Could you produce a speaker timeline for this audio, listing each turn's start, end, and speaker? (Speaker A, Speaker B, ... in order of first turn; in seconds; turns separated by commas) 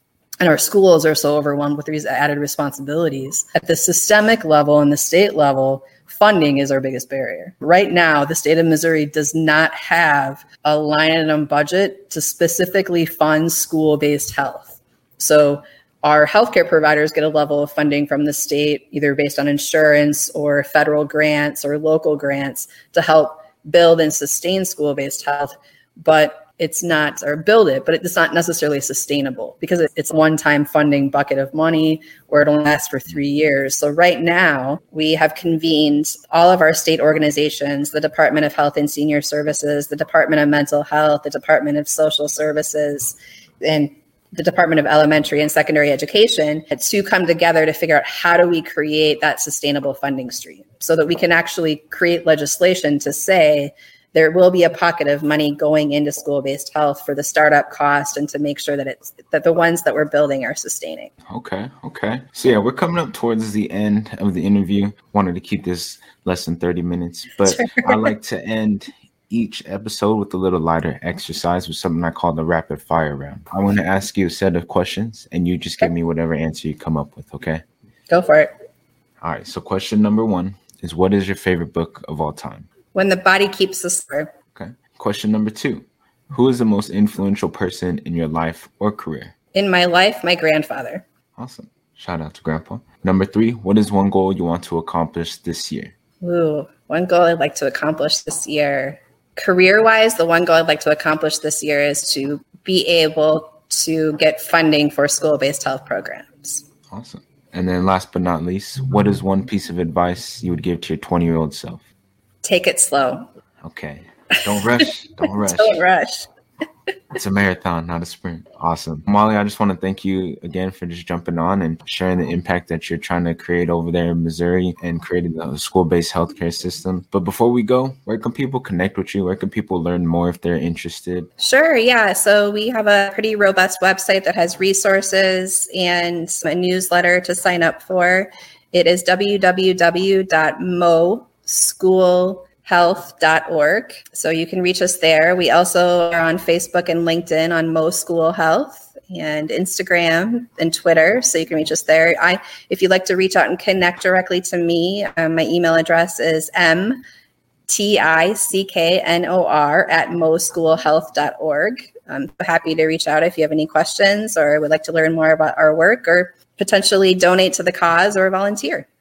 Speaker A: 0.4-61.1, Speaker B: 61.3-77.6, Speaker A: 67.5-68.1, Speaker A: 78.1-78.5, Speaker B: 79.2-82.7, Speaker A: 82.9-84.3, Speaker B: 84.5-89.3, Speaker A: 89.5-91.0, Speaker B: 91.4-95.9, Speaker A: 96.2-106.6, Speaker B: 106.9-111.8, Speaker A: 112.4-113.3, Speaker B: 113.6-115.8, Speaker A: 114.3-114.8, Speaker A: 115.4-116.3, Speaker B: 117.1-131.3, Speaker A: 131.4-157.0, Speaker A: 157.7-168.9